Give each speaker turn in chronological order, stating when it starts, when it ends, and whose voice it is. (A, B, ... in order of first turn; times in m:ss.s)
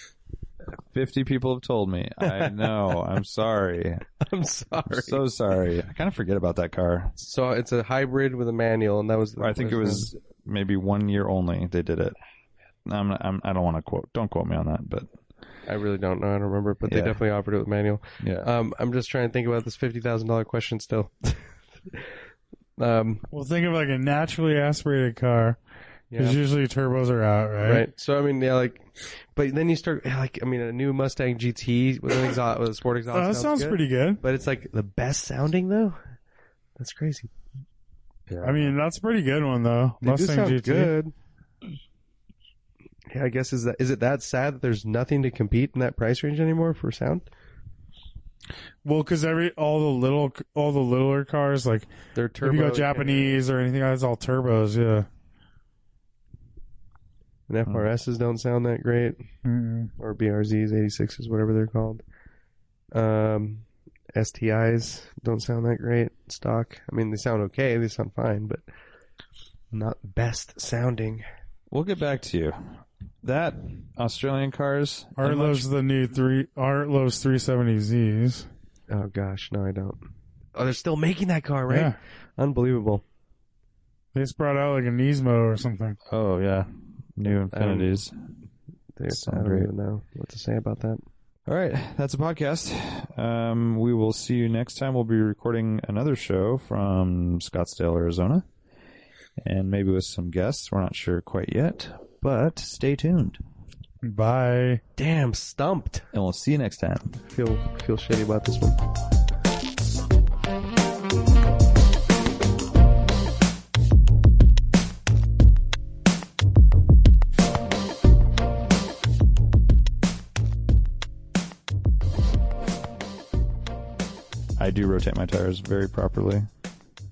0:00.7-0:04.0 A
0:04.2-0:05.3 B
0:04.9-0:07.1 A
0:07.2-0:10.1 B
0:09.4-0:12.2 A
0:12.8-0:15.1 A
0:15.7-0:22.1 B
0:16.8-0:17.2 A
0:18.2-0:18.5 A
0:22.8-0:23.2 B
0:23.3-0:25.6 C
0:26.1-0:26.4 B
0:26.2-0:27.8 C
0:27.6-0:36.0 B
0:33.1-0:34.2 C
0:36.8-0:37.3 B
0:38.3-0:38.8 A
0:38.4-0:40.9 C
0:40.0-0:41.1 B
0:43.1-0:47.3 B
0:48.8-0:51.9 C
0:52.1-0:53.4 B
0:52.4-0:55.1 C
0:57.5-0:59.2 B
0:59.4-0:59.9 C
1:00.0-1:02.0 B
1:02.9-1:08.6 B
1:09.7-1:11.2 B
1:11.7-1:15.7 A
1:15.2-1:18.5 C
1:18.9-1:20.0 B
1:20.5-1:23.0 B
1:21.7-1:22.0 C
1:24.1-1:26.0 C
1:26.1-1:28.1 A
1:27.5-1:27.9 B
1:29.0-1:31.0 B
1:29.1-1:29.7 A
1:31.5-1:38.5 A
1:39.4-1:43.4 A
1:44.0-1:44.8 C
1:45.0-1:46.0 B
1:46.1-1:47.2 A
1:47.2-1:48.8 B
2:04.6-2:06.5 A